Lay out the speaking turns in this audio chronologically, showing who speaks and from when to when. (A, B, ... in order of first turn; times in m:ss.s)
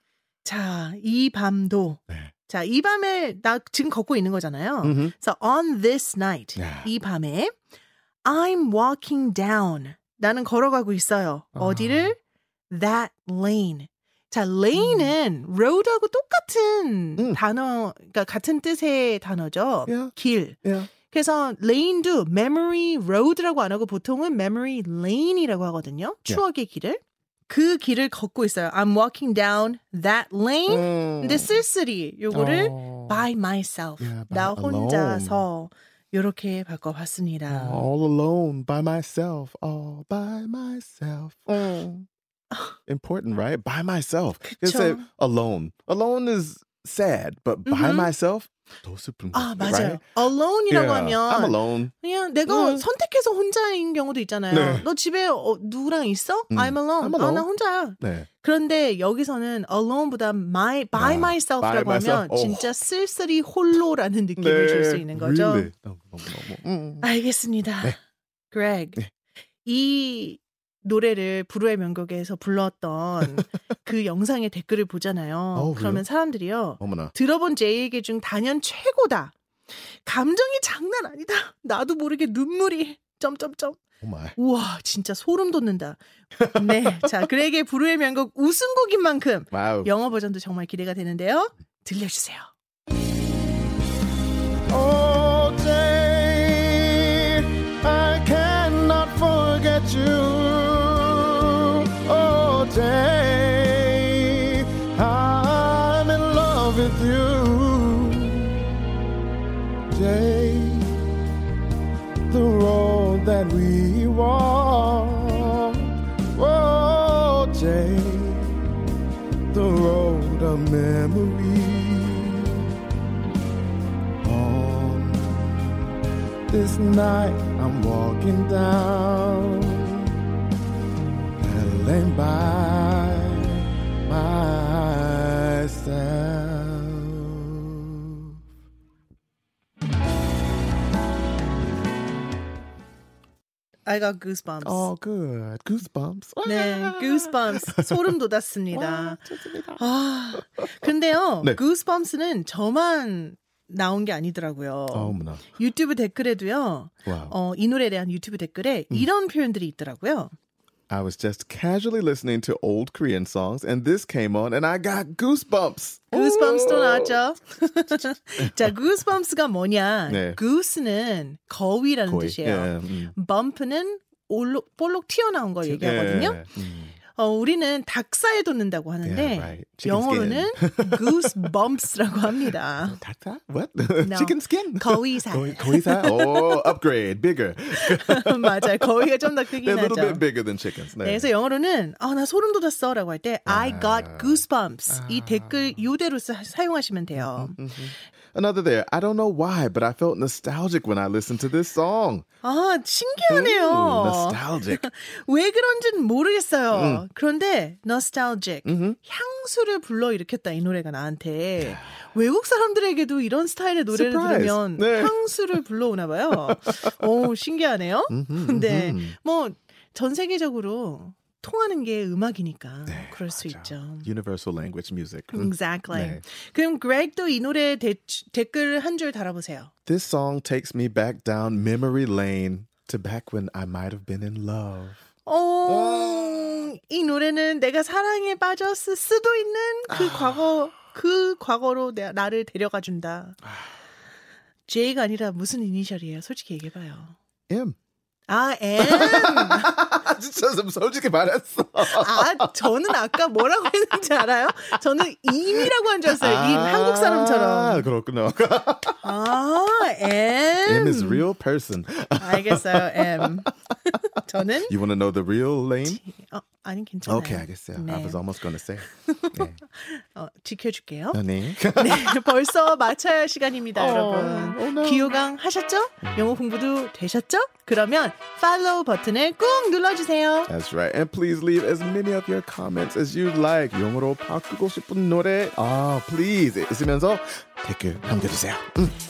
0:00.4-0:07.5 A
0:04.8-0:05.1 B
0:06.6-0:06.9 B
0:08.2-0:12.2 A
0:11.6-0:12.1 B
0:12.7-0:37.9 A
0:14.7-0:15.1 B
0:19.9-0:20.9 B
0:30.7-0:31.6 B
0:32.3-0:33.3 B
0:34.0-0:35.4 B
0:37.5-0:42.1 B
0:42.9-0:50.0 B
0:44.4-0:45.0 A
0:47.7-0:48.1 A
0:49.3-1:05.7 A
0:50.7-0:51.9 B
0:52.5-0:52.8 B
0:54.5-0:54.8 B
0:56.5-0:57.4 B
0:58.0-0:58.3 B
1:00.9-1:02.7 B
1:04.4-1:07.1 B
1:07.0-1:08.0 A
1:08.5-1:09.0 A
1:09.6-1:19.3 A
1:15.6-1:16.0 B
1:16.8-1:17.1 B
1:20.0-1:23.8 A
1:24.0-1:24.4 B
1:24.4-1:26.0 A
1:26.4-1:27.1 B
1:26.5-1:32.5 A
1:29.5-1:29.9 B
1:34.7-1:48.6 B
1:49.9-1:51.0 B
1:52.3-1:58.8 B
1:59.5-2:02.7 B
2:04.2-2:06.0 B
2:06.5-2:10.2 B
2:11.4-2:18.3 B
2:23.8-2:24.9 A
2:24.6-2:28.1 B
2:26.4-2:29.2 A
2:28.7-2:29.9 B
2:29.8-2:40.3 A
2:30.6-2:30.8 B
2:34.9-2:35.4 B
2:37.1-2:37.3 B
2:40.9-2:47.2 B
2:46.1-2:56.4 A
2:48.4-2:48.7 B
2:50.1-2:50.4 B
2:52.1-2:53.1 B
2:55.6-2:57.0 B
2:57.2-3:03.0 A
2:59.0-3:01.5 B
3:02.4-3:11.3 B
3:04.0-3:06.7 A
3:07.8-3:10.2 A
3:11.0-3:17.6 A
3:13.5-3:15.8 B
3:17.2-3:22.2 B
3:22.4-3:44.1 A
3:23.3-3:24.8 B
3:26.7-3:27.0 B
3:28.7-3:29.0 B
3:31.6-3:32.0 B
3:33.9-3:35.6 B
3:36.5-3:37.1 B
3:38.1-3:39.2 B
3:42.9-3:46.2 B
3:45.3-3:49.7 A
3:49.8-3:55.0 B
3:55.3-4:03.4 A
3:55.7-3:56.6 B
3:59.9-4:00.6 B
4:04.7-4:07.2 A
4:07.5-4:07.8 B
4:08.3-4:09.7 A
4:08.8-4:12.7 B
4:11.8-4:17.9 A
4:15.6-4:19.1 B
4:19.0-4:21.2 A
4:20.6-4:23.4 B
4:22.2-4:24.7 A
4:24.6-4:26.0 B
4:25.8-4:28.2 A
4:27.1-4:29.6 B
4:29.0-4:40.5 A
4:31.1-4:32.5 B
4:33.8-4:35.2 B
4:36.0-4:36.4 B
4:40.5-4:49.0 B